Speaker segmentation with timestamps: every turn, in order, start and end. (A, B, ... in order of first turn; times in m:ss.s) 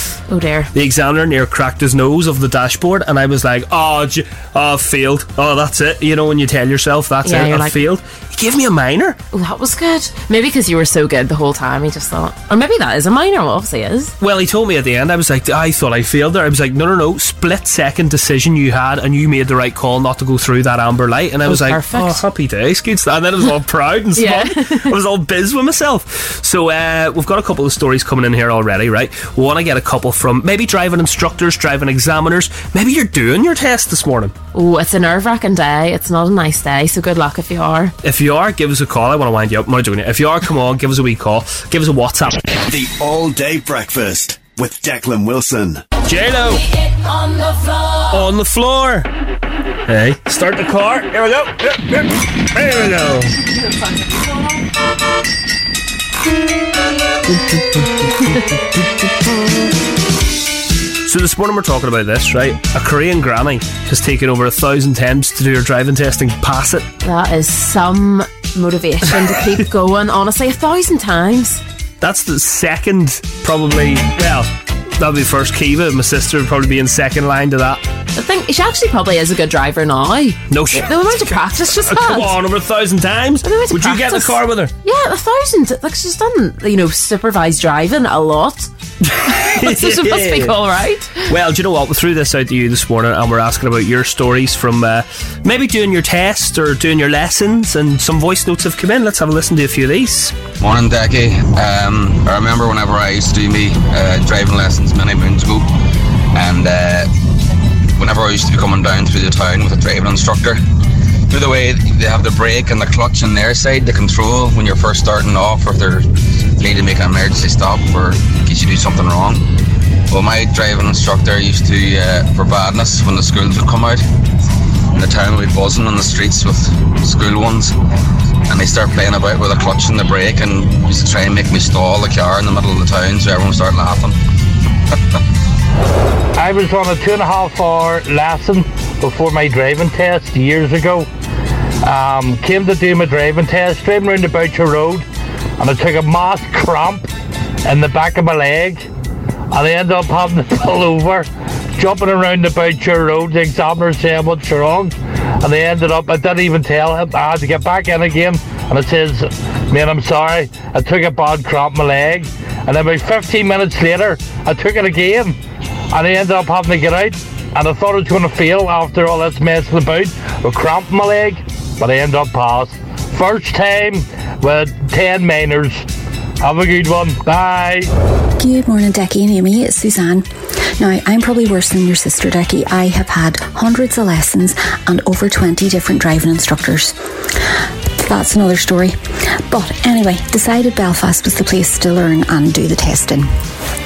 0:00.3-0:00.7 A
0:00.7-0:09.2 B
0:07.2-0:07.8 A
0:09.3-0:14.2 A
0:14.2-0:34.4 B
0:21.5-0:22.2 A
0:24.2-0:25.0 A
0:34.5-0:37.9 A
0:38.0-0:42.5 B
0:42.7-0:45.8 C
0:46.0-0:46.7 B
0:48.0-0:49.1 B
0:49.9-0:53.4 B
1:01.0-1:06.9 B
1:07.0-1:11.6 A
1:12.0-1:17.8 B
1:18.2-1:22.4 A
1:20.5-1:24.7 B
1:23.4-1:28.7 A
1:29.0-1:30.6 B
1:29.3-1:31.3 A
1:31.3-1:40.4 B
1:40.6-1:45.7 D
1:46.4-1:47.1 D
1:48.0-1:50.6 D
1:51.3-1:56.1 D
1:56.6-1:59.4 D
2:00.1-2:04.0 D
2:04.9-2:07.8 D
2:08.5-2:14.2 D
2:16.4-2:21.1 E
2:21.8-2:25.0 E
2:25.6-2:27.1 E
2:27.6-2:28.9 E
2:29.5-2:45.4 E
2:45.9-2:55.8 E
2:56.4-2:57.9 E
2:58.4-3:07.0 F
3:08.0-3:13.3 F